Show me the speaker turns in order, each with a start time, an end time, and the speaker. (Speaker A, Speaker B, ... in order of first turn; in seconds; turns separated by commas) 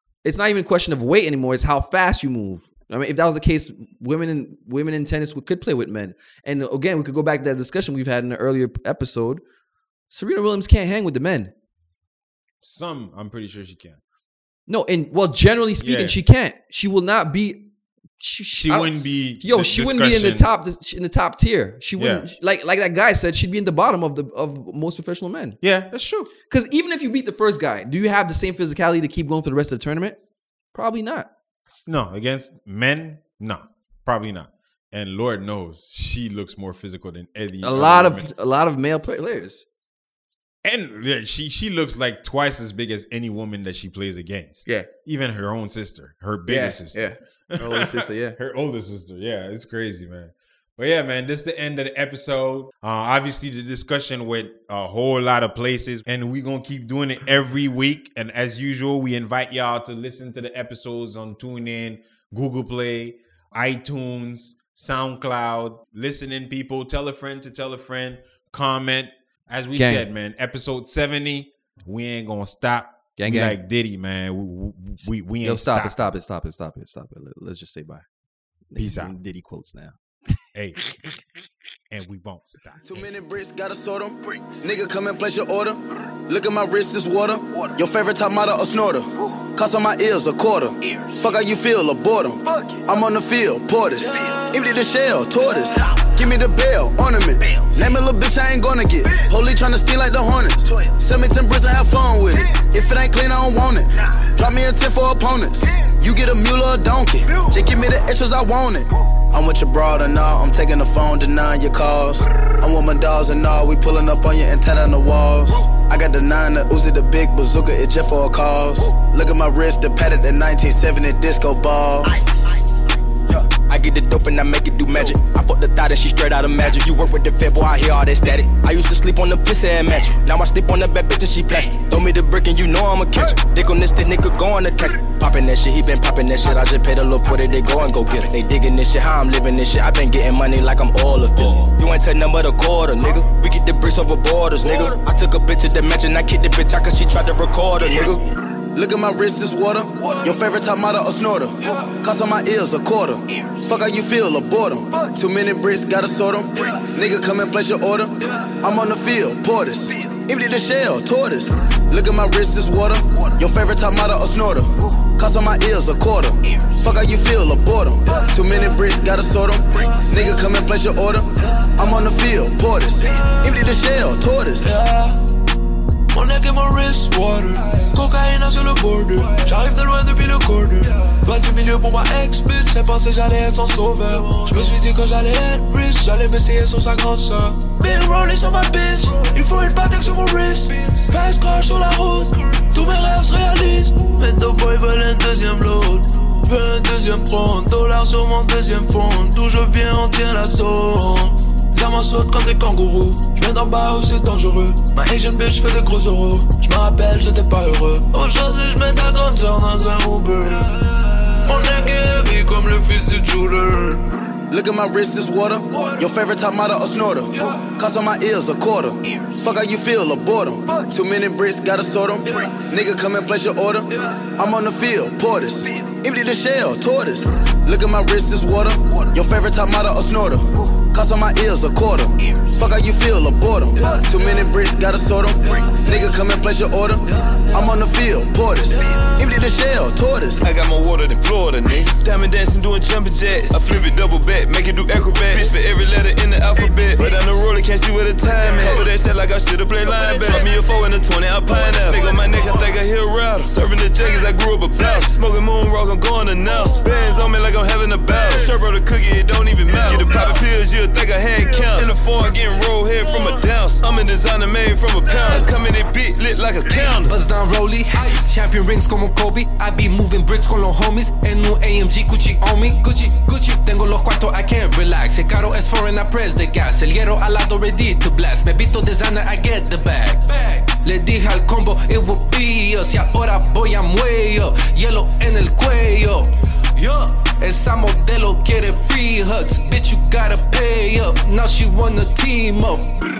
Speaker A: 0.2-9.4, Speaker A: 10.1-11.5, Speaker B: 12.6-14.0, Speaker A: 14.7-25.6, Speaker B: 15.8-16.2, Speaker B: 18.5-20.5, Speaker B: 22.0-22.2, Speaker B: 25.6-26.3, Speaker A: 26.5-30.2, Speaker A: 30.7-31.3, Speaker B: 31.9-38.3, Speaker A: 37.6-39.6, Speaker B: 40.6-76.1, Speaker A: 46.5-48.4, Speaker A: 69.8-70.0, Speaker A: 73.2-73.6, Speaker A: 75.4-78.0, Speaker A: 78.7-80.0, Speaker B: 78.8-79.1, Speaker B: 81.9-83.1, Speaker C: 82.8-122.1, Speaker D: 123.5-148.2, Speaker C: 148.7-174.7, Speaker E: 174.6-175.2, Speaker E: 176.1-214.1, Speaker C: 214.5-240.4, Speaker E: 233.8-234.3, Speaker E: 237.3-237.6, Speaker F: 240.4-267.1, Speaker G: 267.0-293.0